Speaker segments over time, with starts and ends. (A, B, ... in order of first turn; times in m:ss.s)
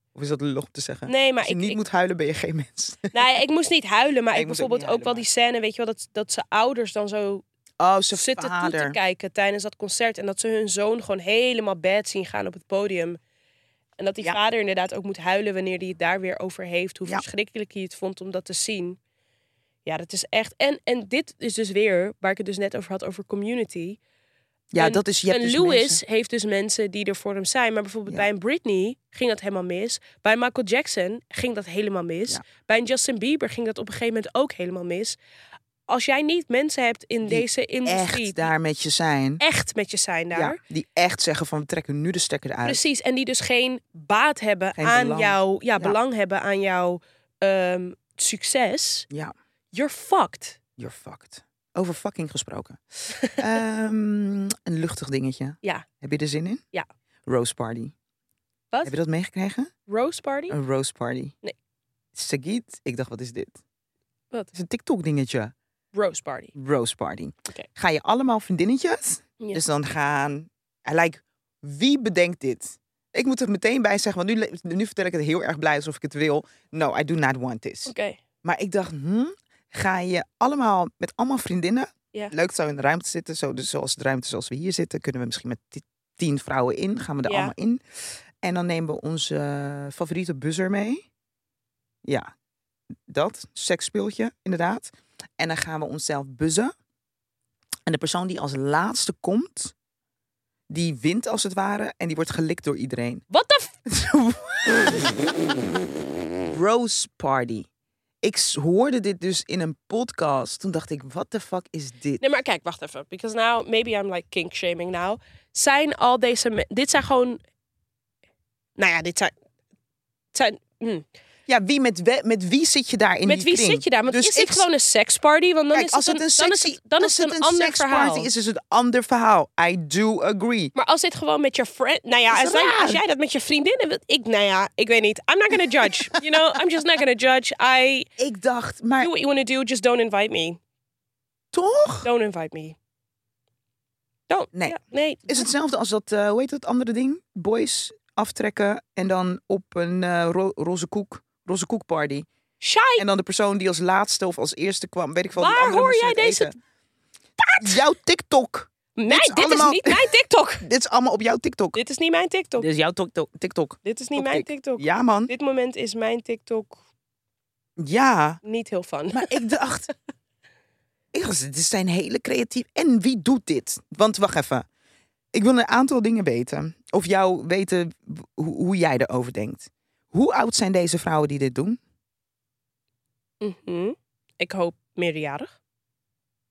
0:00.1-0:03.2 A
0:01.1-0:01.8 B
0:03.1-0:07.4 B
0:04.3-0:05.2 A
0:07.8-0:09.0 A
0:08.1-0:13.2 B
0:14.0-0:19.0 B
0:19.8-0:24.0 B
0:24.7-0:26.0 A
0:24.8-0:35.2 B
0:35.9-0:38.4 B
0:37.2-0:39.4 A
0:39.4-0:40.6 B
0:40.3-0:42.8 A
0:42.6-0:49.1 B
0:44.8-0:46.0 A
0:49.7-0:50.6 B
0:50.8-0:56.6 A
0:57.3-0:57.9 A
0:58.8-0:59.7 A
0:59.9-1:00.6 B
1:00.5-1:01.3 A
1:02.1-1:03.6 A
1:04.5-1:05.5 A
1:05.9-1:06.5 B
1:06.6-1:17.9 A
1:17.8-1:18.2 B
1:18.4-1:27.8 A
1:27.2-1:27.5 B
1:28.4-1:31.0 A
1:32.0-1:32.3 A
1:33.1-1:36.7 A
1:37.8-1:39.7 A
1:40.7-1:43.2 A
1:43.3-1:43.7 B
1:43.8-1:45.3 A
1:46.5-1:47.7 A
1:48.2-1:52.2 A
1:52.2-1:57.4 B
1:58.8-1:59.3 B
2:00.3-2:01.0 B
2:01.5-2:04.7 A
2:03.2-2:08.3 B
2:05.7-2:10.7 A
2:10.7-2:18.1 B
2:12.3-2:13.0 A
2:15.9-2:16.2 A
2:18.2-2:19.1 A
2:19.0-2:20.6 B
2:21.5-2:22.1 A
2:22.0-2:22.8 B
2:24.3-2:25.5 B
2:24.5-2:32.3 A
2:32.6-2:33.0 B
2:33.0-2:36.6 A
2:35.3-2:36.5 B
2:37.4-2:37.8 B
2:37.6-2:40.1 A
2:39.0-2:40.6 B
2:40.6-2:41.8 A
2:41.7-2:42.7 B
2:42.6-2:45.3 A
2:43.8-2:46.8 B
2:47.8-2:48.4 A
2:48.4-2:49.4 B
2:49.1-2:49.9 A
2:51.1-2:54.6 A
2:55.3-3:01.8 A
3:03.4-3:05.5 B